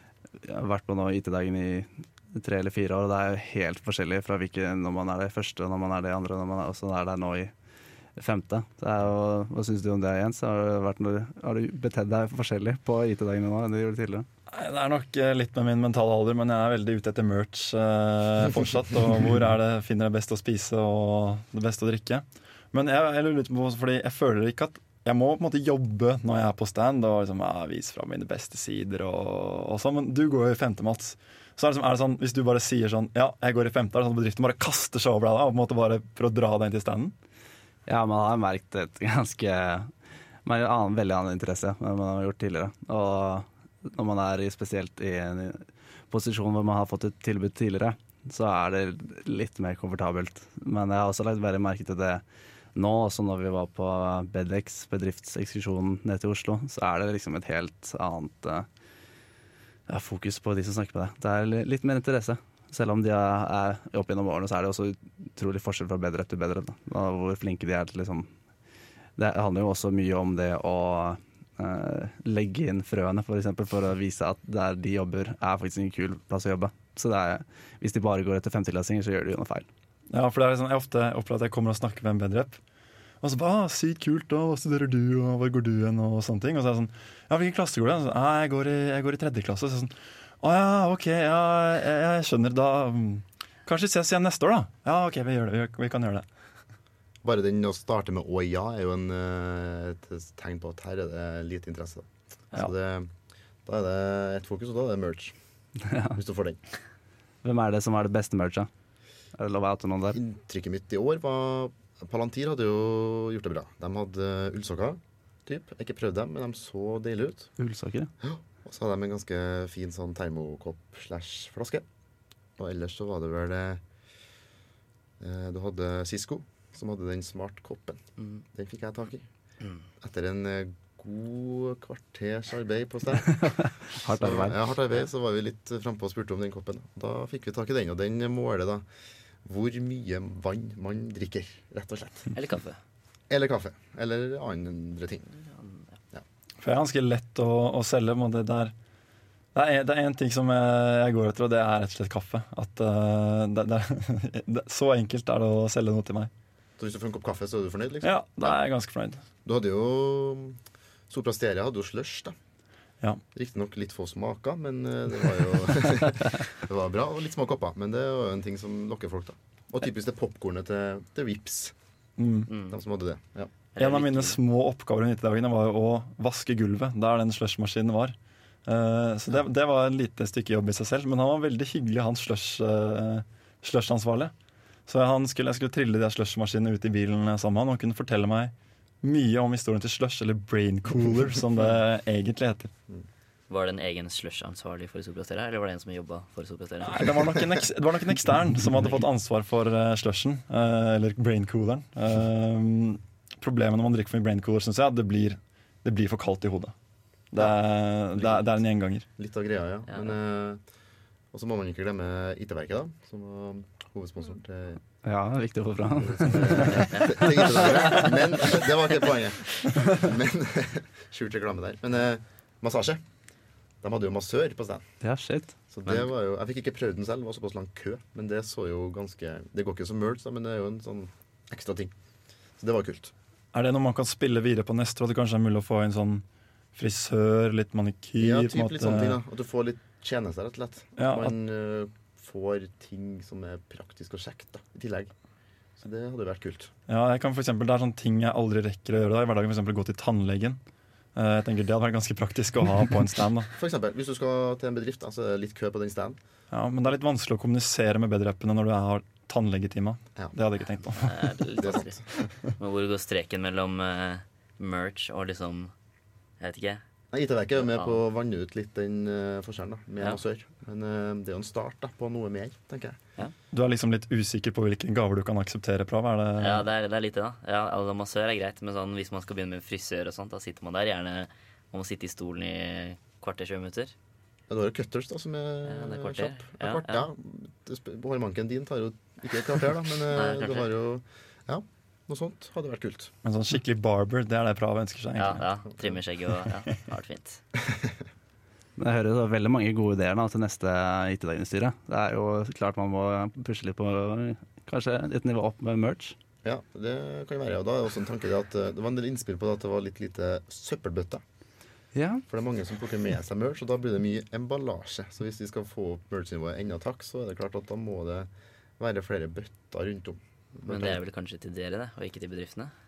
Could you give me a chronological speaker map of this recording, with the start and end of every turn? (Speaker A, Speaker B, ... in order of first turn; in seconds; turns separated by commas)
Speaker A: 0.4-7.5, Speaker A: 8.2-14.3, Speaker B: 14.5-37.1, Speaker A: 37.9-39.9, Speaker A: 40.4-52.2, Speaker A: 52.8-58.7, Speaker A: 59.9-68.3, Speaker A: 69.2-79.7, Speaker B: 80.1-82.6, Speaker B: 83.2-96.2, Speaker C: 97.2-103.1, Speaker C: 103.6-105.3, Speaker A: 105.9-106.2, Speaker C: 106.1-106.6, Speaker A: 107.4-108.7, Speaker A: 109.3-110.2, Speaker C: 110.1-117.5, Speaker A: 117.6-118.1, Speaker C: 118.2-121.8, Speaker C: 122.6-123.8, Speaker C: 125.2-128.0, Speaker D: 128.2-128.4, Speaker C: 128.5-129.3, Speaker D: 129.6-129.8, Speaker C: 130.0-133.5, Speaker A: 133.4-134.6, Speaker C: 134.2-138.8, Speaker C: 139.4-142.3, Speaker D: 142.3-142.8, Speaker C: 143.3-145.3, Speaker D: 145.4-145.8, Speaker B: 146.6-148.7, Speaker B: 149.5-156.3, Speaker C: 156.8-158.6, Speaker B: 158.0-159.2, Speaker C: 159.4-162.3, Speaker C: 163.3-171.7, Speaker B: 172.2-172.5, Speaker D: 172.5-172.8, Speaker C: 172.7-173.5, Speaker D: 173.7-174.4, Speaker B: 173.8-184.3, Speaker B: 184.9-192.7, Speaker D: 193.5-197.4, Speaker B: 196.8-206.7, Speaker B: 207.3-209.1, Speaker C: 209.2-210.6, Speaker D: 209.9-210.2, Speaker C: 211.3-214.8, Speaker A: 215.0-217.3, Speaker C: 216.0-223.0, Speaker D: 216.9-218.1, Speaker C: 223.8-224.9, Speaker A: 225.0-225.5, Speaker C: 225.7-231.9, Speaker D: 225.8-226.1, Speaker C: 232.6-233.1, Speaker B: 233.5-239.2, Speaker C: 238.2-245.1, Speaker B: 241.0-241.3, Speaker C: 245.8-246.7, Speaker B: 246.9-250.6, Speaker B: 251.1-253.5, Speaker C: 253.6-256.2, Speaker B: 256.5-261.3, Speaker D: 261.0-265.7, Speaker C: 261.6-262.2, Speaker D: 266.4-266.8, Speaker C: 267.1-273.0, Speaker D: 267.5-268.0, Speaker B: 273.5-276.7, Speaker D: 276.4-283.9, Speaker C: 284.5-293.1, Speaker D: 285.6-287.1, Speaker D: 290.1-290.7, Speaker B: 293.2-295.4, Speaker D: 295.1-297.4, Speaker A: 298.8-306.1, Speaker C: 306.4-311.2, Speaker A: 311.9-312.2, Speaker C: 312.3-318.3, Speaker C: 318.8-321.0, Speaker D: 320.6-322.7